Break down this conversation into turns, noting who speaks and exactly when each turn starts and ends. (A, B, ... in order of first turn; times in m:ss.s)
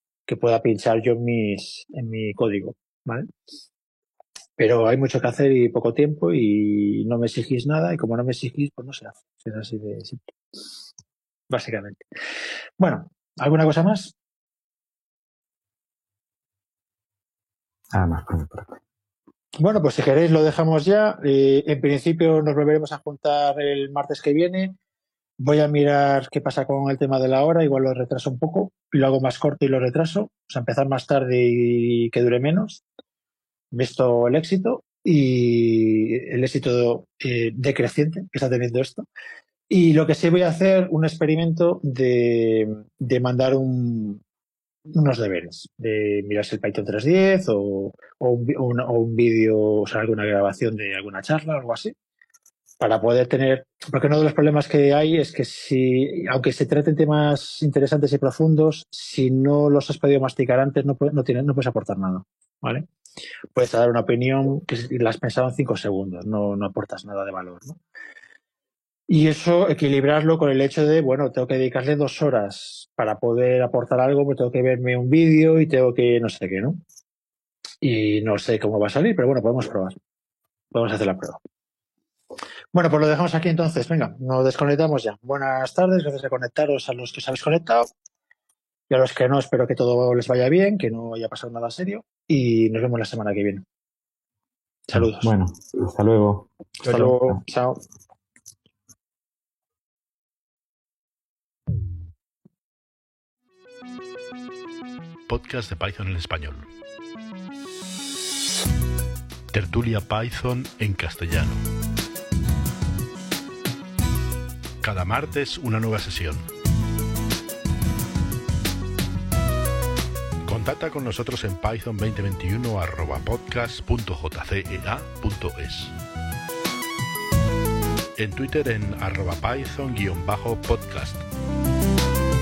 0:00.3-0:03.3 A
0:04.6-0:10.2 A
0:11.5-0:12.0 A
0:12.8-0:14.1 A
0:17.9-0:18.8 B
0:19.6-0:24.8 A
0:25.4-0:32.8 A
0:33.7-0:39.0 A
0:39.7-0:44.2 A
0:44.9-0:51.9 A
0:52.8-1:02.9 A
1:03.5-1:07.8 A
1:09.1-1:16.8 A
1:17.8-1:20.0 A
1:20.7-1:21.4 A
1:22.7-1:27.9 A
1:28.9-1:33.6 A
1:34.9-1:35.3 A
1:34.9-1:37.4 B
1:36.8-1:37.8 A
1:45.3-1:46.7 C
1:49.5-1:51.6 C
1:54.8-1:56.4 C
2:00.4-2:05.9 C
2:08.2-2:11.2 C